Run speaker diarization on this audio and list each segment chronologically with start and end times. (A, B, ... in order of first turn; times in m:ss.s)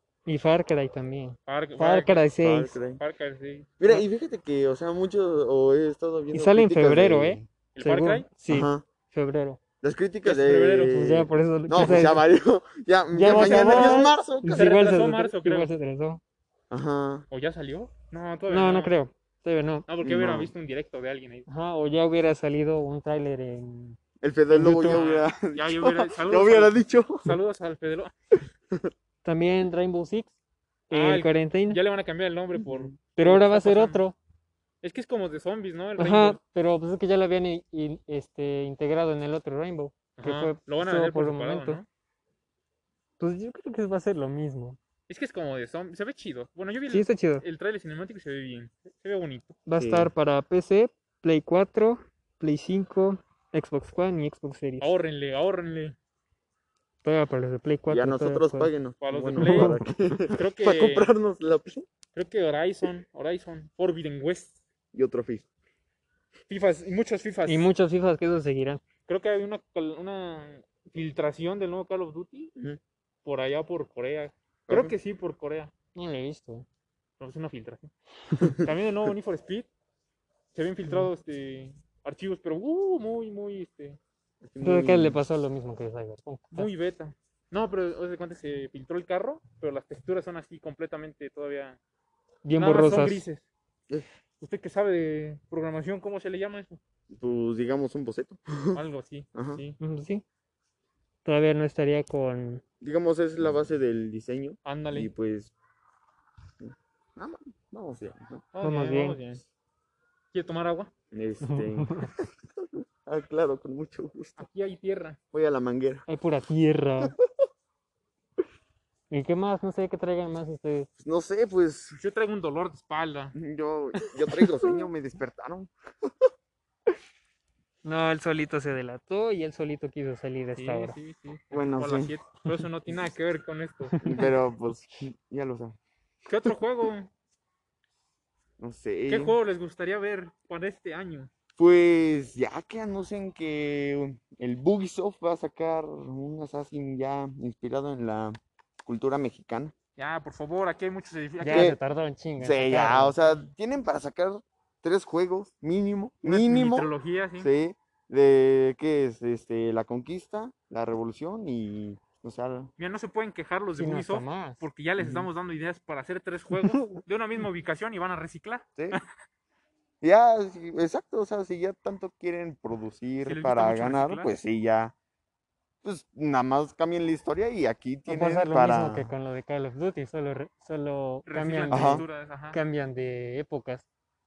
0:00.3-0:02.8 A
0:01.5-0:02.3 B
0:02.4-0:03.0 C
0:03.0-0:04.0 B
0:03.8-0:07.5 C
0:06.3-0:09.6 A
0:07.8-0:08.3 B
0:08.5-0:08.8 C
0:09.8-0:14.7 C
0:10.2-0:11.0 B
0:10.9-0:12.2 A
0:13.1-0:16.2 A
0:13.2-0:15.7 B
0:16.7-0:17.3 C
0:17.3-0:19.0 B
0:18.5-0:19.9 A
0:19.9-0:21.5 B
0:20.0-0:20.5 C
0:21.5-0:24.0 A
0:24.2-0:27.4 C
0:24.5-0:25.0 A
0:24.9-0:28.1 B
0:29.2-0:30.3 A
0:30.9-0:31.8 A
0:30.9-0:34.0 B
0:32.6-0:33.0 C
0:33.2-0:34.2 A
0:34.8-0:36.4 B
0:36.0-0:41.8 A
0:40.2-0:41.9 B
0:43.2-0:44.8 A
0:45.1-0:49.6 B
0:46.9-0:47.4 A
0:49.7-0:54.9 A
0:49.8-0:50.1 C
0:54.8-0:56.0 B
0:57.0-0:58.7 A
0:57.9-1:01.9 C
0:59.0-1:01.1 B
0:59.4-0:59.8 A
1:02.1-1:04.6 B
1:04.9-1:05.4 C
1:06.5-1:07.7 B
1:07.5-1:08.8 A
1:09.1-1:12.5 B
1:13.2-1:15.7 B
1:14.7-1:15.0 C
1:16.0-1:16.7 A
1:17.2-1:17.9 B
1:18.4-1:18.7 C
1:18.6-1:19.7 B
1:20.5-1:24.0 B
1:24.4-1:25.2 C
1:24.6-1:26.7 A
1:26.5-1:31.8 B
1:32.4-1:33.2 A
1:32.6-1:33.5 B
1:34.4-1:36.8 B
1:37.1-1:38.8 C
1:38.7-1:39.8 B
1:39.3-1:39.6 C
1:39.8-1:40.2 A
1:41.2-1:42.6 A
1:42.8-1:45.5 C
1:44.6-1:45.1 B
1:46.6-1:48.5 C
1:48.5-1:49.4 B
1:48.6-1:49.2 A
1:50.3-1:50.9 B
1:51.1-1:54.5 C
1:51.5-1:52.1 A
1:54.4-1:55.2 B
1:55.3-1:56.1 C
1:56.1-1:57.2 A
1:59.1-2:00.9 A
2:01.0-2:02.0 C
2:02.0-2:03.4 B
2:03.4-2:05.7 C
2:04.3-2:04.8 A
2:07.8-2:11.0 A
2:10.6-2:14.0 B
2:11.5-2:12.2 C
2:13.9-2:14.3 A
2:14.0-2:15.8 C
2:16.3-2:17.1 B
2:18.6-2:19.4 C
2:19.1-2:21.3 B
2:21.6-2:29.7 C
2:30.0-2:31.8 B
2:31.4-2:33.2 A
2:31.5-2:31.8 C
2:32.4-2:42.7 C
2:36.2-2:37.5 B
2:42.8-2:49.0 B
2:43.8-2:44.6 A
2:45.0-2:45.3 C
2:50.0-2:54.9 C
2:53.2-2:54.3 B
2:55.8-2:59.1 C
2:58.1-3:03.8 A
3:01.3-3:02.6 B
3:01.7-3:02.0 C